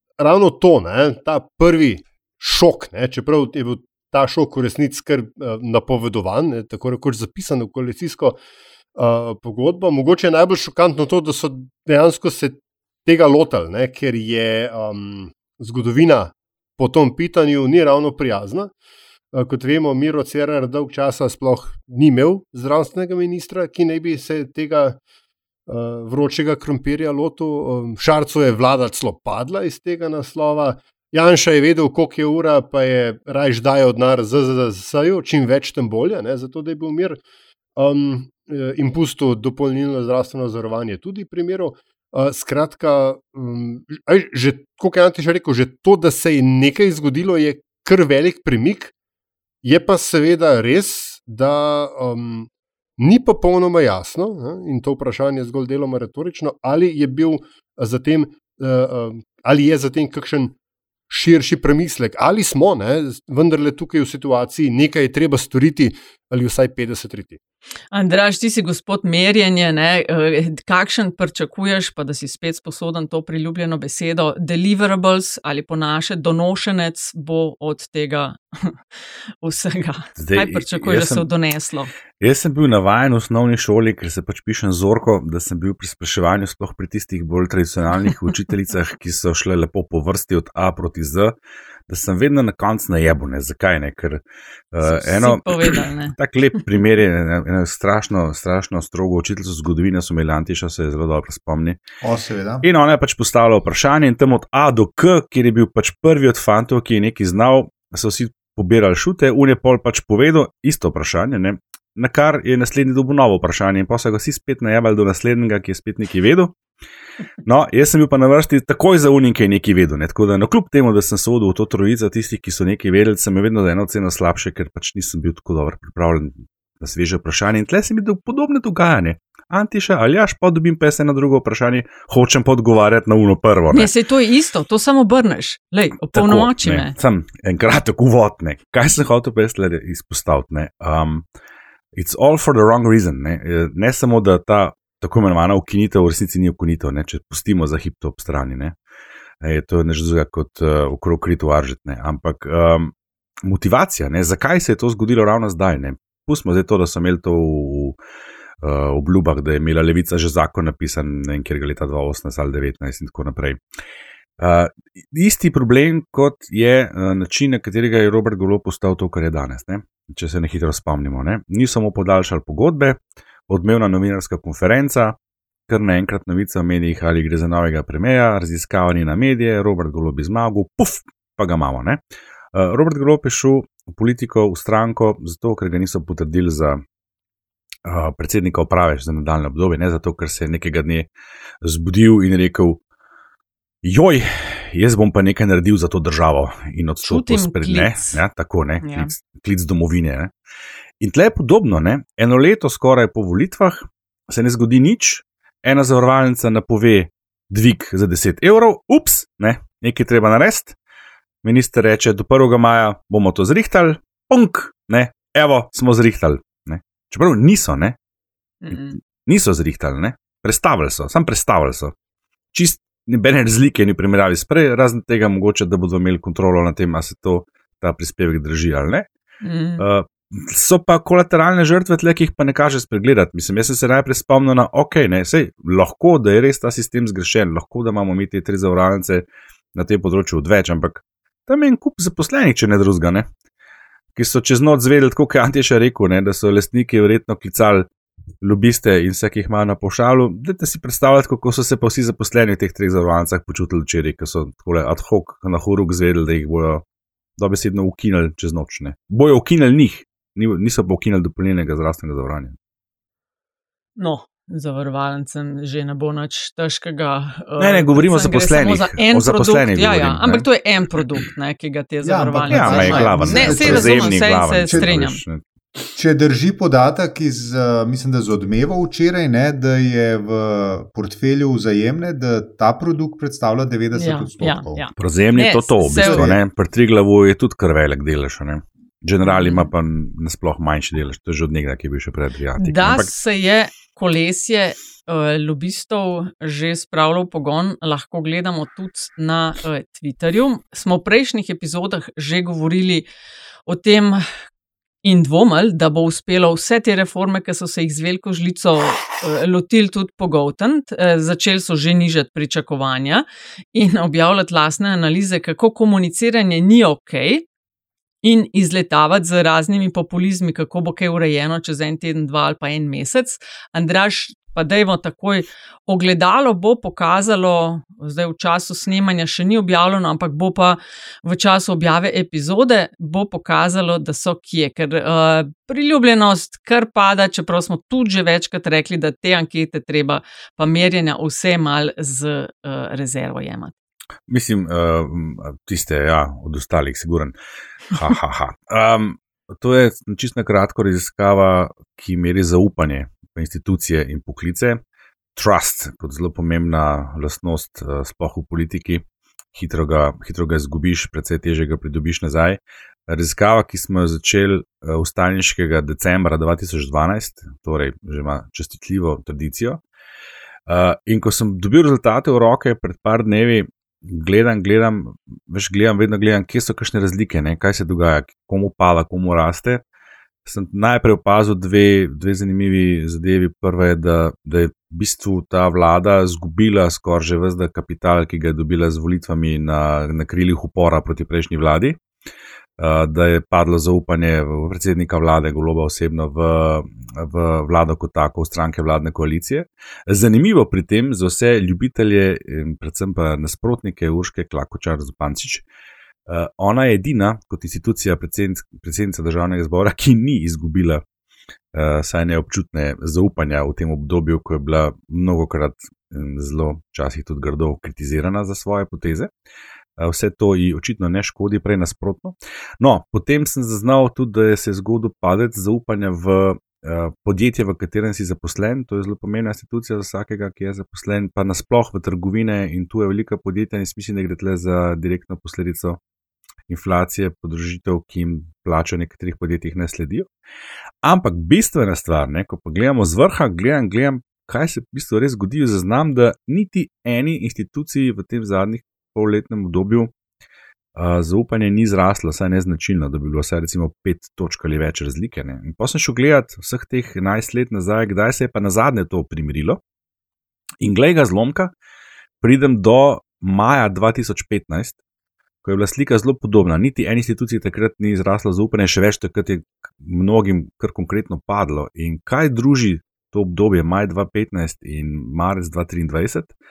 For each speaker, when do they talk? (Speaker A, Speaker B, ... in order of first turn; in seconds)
Speaker A: 0.2-8.4, 8.9-18.7, 19.3-25.0, 25.7-37.2, 37.8-48.9, 49.6-60.5, 61.1-67.4
Speaker B: 67.9-78.8, 79.4-81.9, 94.8-96.2, 133.7-136.9, 197.0-198.2, 198.8-199.1, 218.6-219.0, 229.4-229.8, 264.0-275.2, 283.9-286.3, 289.2-289.7, 292.6-303.1, 303.7-304.2, 305.0-317.4, 318.2-343.7
Speaker C: 80.2-81.2, 82.2-91.3, 91.9-94.2, 94.7-101.8, 102.6-116.5, 117.4-133.9, 136.1-141.2, 141.9-148.7, 149.4-158.0, 158.6-163.6, 164.4-175.2, 175.7-182.0, 182.5-186.8, 187.8-191.1, 191.6-192.8, 193.8-200.3, 201.0-210.7, 211.4-218.0, 218.7-221.9, 222.5-229.1, 229.8-243.3, 244.1-247.9, 248.4-256.8, 257.4-262.6, 267.6-270.4, 272.5-275.4, 285.0-293.1, 344.3-347.3, 347.9-354.8, 355.3-359.0, 359.5-369.8, 370.7-379.8, 380.4-392.0, 392.8-405.6, 406.3-411.0, 411.7-419.3, 420.0-436.0, 436.7-440.3, 441.0-450.1, 450.9-459.8, 460.8-461.7, 462.4-465.0, 465.6-476.5
Speaker D: 102.0-102.6, 272.0-275.0, 275.9-284.9, 285.9-286.4